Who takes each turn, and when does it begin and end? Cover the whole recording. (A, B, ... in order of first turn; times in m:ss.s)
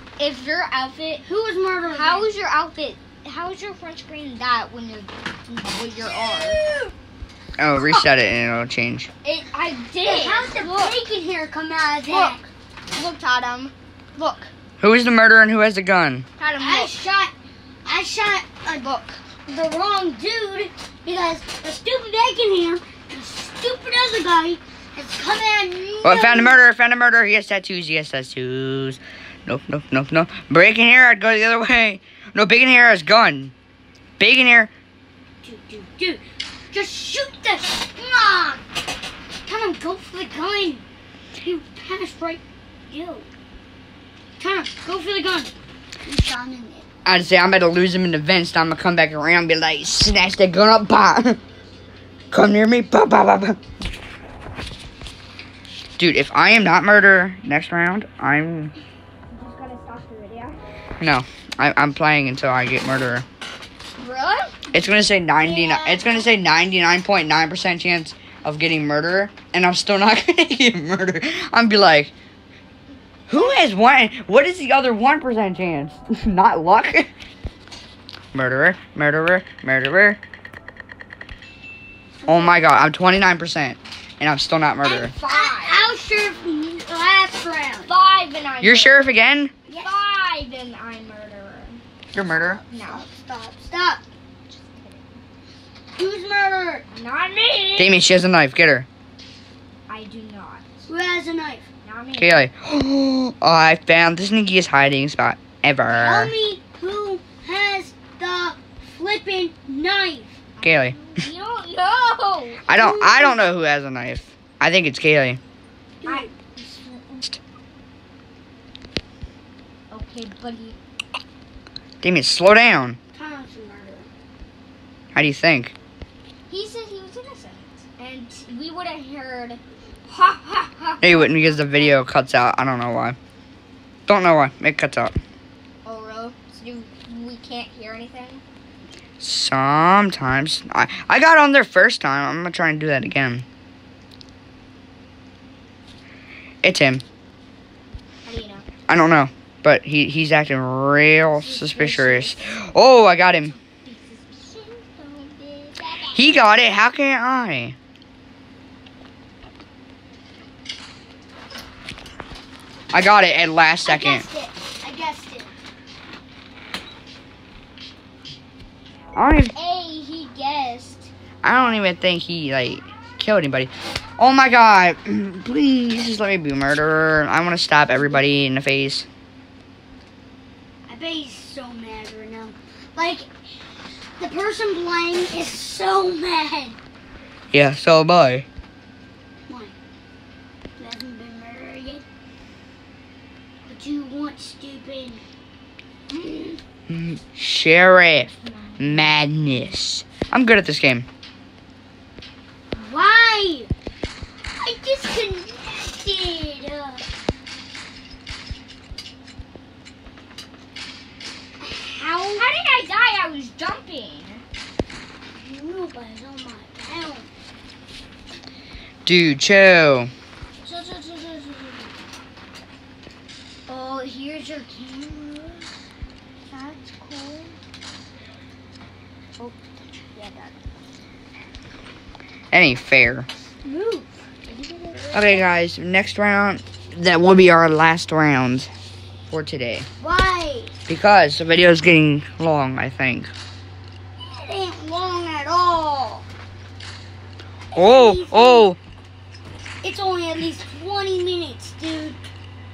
0:00.2-0:01.2 A
0:01.2-0:02.3 B
0:01.9-0:06.6 A
0:06.0-0:06.9 B
0:07.6-0:09.1 C
0:09.2-0:10.9 A
0:10.0-0:12.4 B
0:12.1-0:14.5 A
0:14.8-0:16.2 C
0:16.4-0:16.9 A
0:16.6-0:17.3 B
0:17.8-0:26.6 B
0:18.8-0:19.2 A
0:26.0-0:33.5 C
0:34.2-0:34.7 C
0:35.4-0:36.2 B
0:36.7-0:38.6 B
0:39.4-0:40.8 B
0:41.4-0:43.3 B
0:44.4-0:45.5 B
0:46.0-0:46.8 B
0:47.0-0:51.4 C
0:52.3-0:53.6 C
0:56.0-0:58.7 C
0:59.3-1:00.6 A
1:01.0-1:03.2 C
1:04.0-1:04.7 A
1:04.7-1:12.1 C
1:05.4-1:06.3 B
1:13.3-1:17.1 C
1:18.3-1:20.2 C
1:22.2-1:22.5 B
1:22.3-1:25.1 C
1:24.8-1:25.9 A
1:24.9-1:27.9 B
1:27.9-1:29.0 A
1:28.6-1:29.5 C
1:29.7-1:30.0 B
1:29.8-1:31.8 A
1:32.1-1:32.6 C
1:32.2-1:34.0 B
1:32.7-1:33.0 A
1:34.5-1:35.2 A
1:35.9-1:36.8 B
1:36.9-1:38.0 A
1:37.8-1:38.9 C
1:39.9-1:40.9 A
1:40.9-1:41.7 B
1:41.8-1:42.4 A
1:42.2-1:46.3 C
1:45.9-1:50.4 B
1:50.6-1:52.7 A
1:50.6-1:51.0 C
1:52.7-1:55.4 C
1:52.7-1:53.4 B
1:56.0-1:56.5 B
1:56.0-1:57.2 A
1:59.9-2:00.8 A
2:02.0-2:03.0 C
2:03.1-2:04.1 B
2:05.1-2:05.7 C
2:06.5-2:12.0 A
2:11.0-2:13.2 C
2:14.1-2:15.1 C
2:15.8-2:18.4 A
2:19.2-2:23.4 C
2:26.6-2:27.0 C
2:28.2-2:28.6 A
2:28.9-2:33.5 C
2:31.4-2:32.3 B
2:33.8-2:36.2 A
2:36.1-2:37.8 C
2:42.9-2:44.2 C
2:43.8-2:45.5 B
2:49.1-2:49.5 C
2:49.5-2:51.1 A
2:51.4-2:59.0 C
3:00.9-3:03.3 B
3:04.2-3:06.8 B
3:07.5-3:08.4 C
3:09.5-3:09.7 B
3:10.8-3:12.0 B
3:13.6-3:15.2 B
3:16.1-3:16.6 B
3:16.9-3:21.0 C
3:18.4-3:19.1 A
3:22.7-3:23.7 B
3:24.6-3:27.0 B
3:31.6-3:32.5 B
3:32.4-3:34.4 A
3:35.3-3:37.3 B
3:39.0-3:40.1 C
3:40.6-3:41.9 B
3:43.7-3:45.7 B
3:46.5-3:47.6 B
3:50.2-3:50.5 B
3:52.5-3:53.3 C
3:53.6-3:55.4 B
3:55.1-3:58.7 C
3:59.3-3:59.9 C
4:00.0-4:00.7 B
4:00.9-4:03.3 C
4:04.2-4:06.2 B
4:07.7-4:08.7 B
4:07.7-4:08.8 C
4:09.8-4:12.2 B